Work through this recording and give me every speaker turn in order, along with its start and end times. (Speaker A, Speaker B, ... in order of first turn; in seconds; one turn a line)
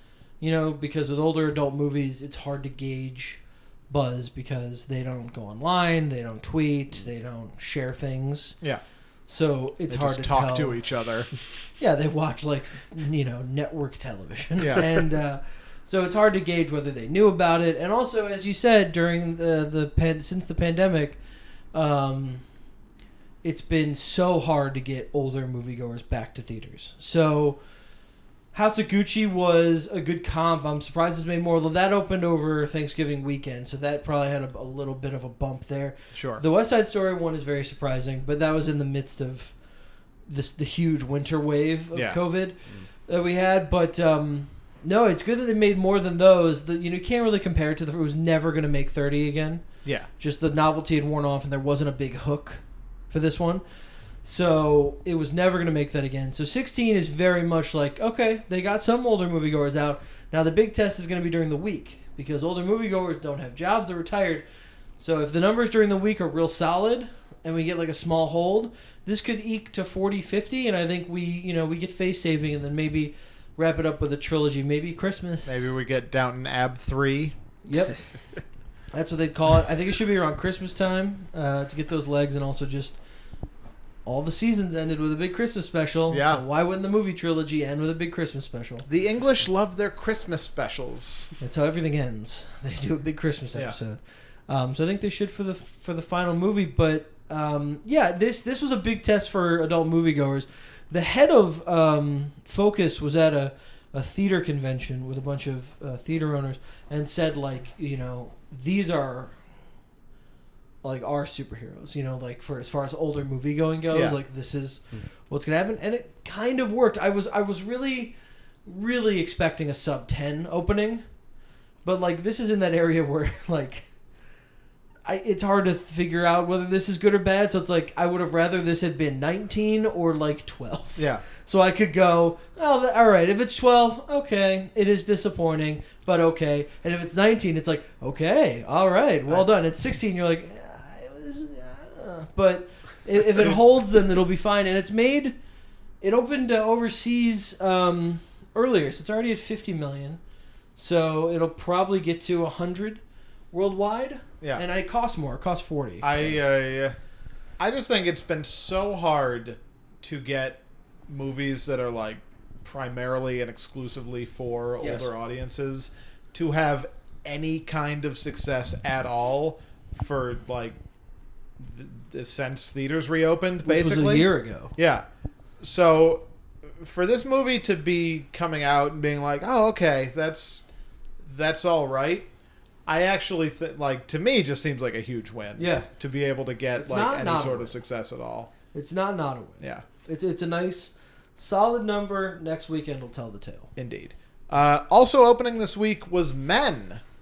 Speaker A: 0.4-8.6
Speaker A: 9.3-10.8
Speaker B: 9.9-11.3
Speaker A: 11.8-21.2
Speaker B: 14.6-15.1
Speaker A: 21.7-22.4
Speaker A: 23.4-27.6
Speaker A: 28.5-39.5
Speaker B: 36.1-36.4
Speaker A: 40.3-49.6
Speaker B: 41.9-42.2
Speaker A: 50.2-53.6
Speaker A: 54.2-64.5
Speaker A: 65.0-75.7
Speaker B: 75.5-77.3
Speaker A: 77.7-78.0
Speaker A: 78.9-83.0
Speaker A: 84.1-88.9
Speaker B: 86.1-86.4
Speaker B: 88.9-91.3
Speaker A: 91.4-109.4
Speaker A: 110.8-121.0
Speaker B: 113.9-114.2
Speaker A: 121.8-123.9
Speaker A: 125.0-145.4
Speaker B: 131.0-131.2
Speaker A: 146.0-150.2
Speaker A: 150.8-153.0
Speaker A: 153.5-156.4
Speaker B: 156.0-156.9
Speaker B: 157.6-170.8
Speaker A: 164.8-165.1
Speaker B: 171.6-175.1
Speaker A: 173.6-174.7
Speaker B: 175.6-180.6
Speaker B: 181.2-182.3
Speaker B: 182.9-188.5
Speaker A: 185.6-185.9
Speaker A: 186.8-187.7
Speaker A: 188.7-193.7
Speaker B: 193.8-197.0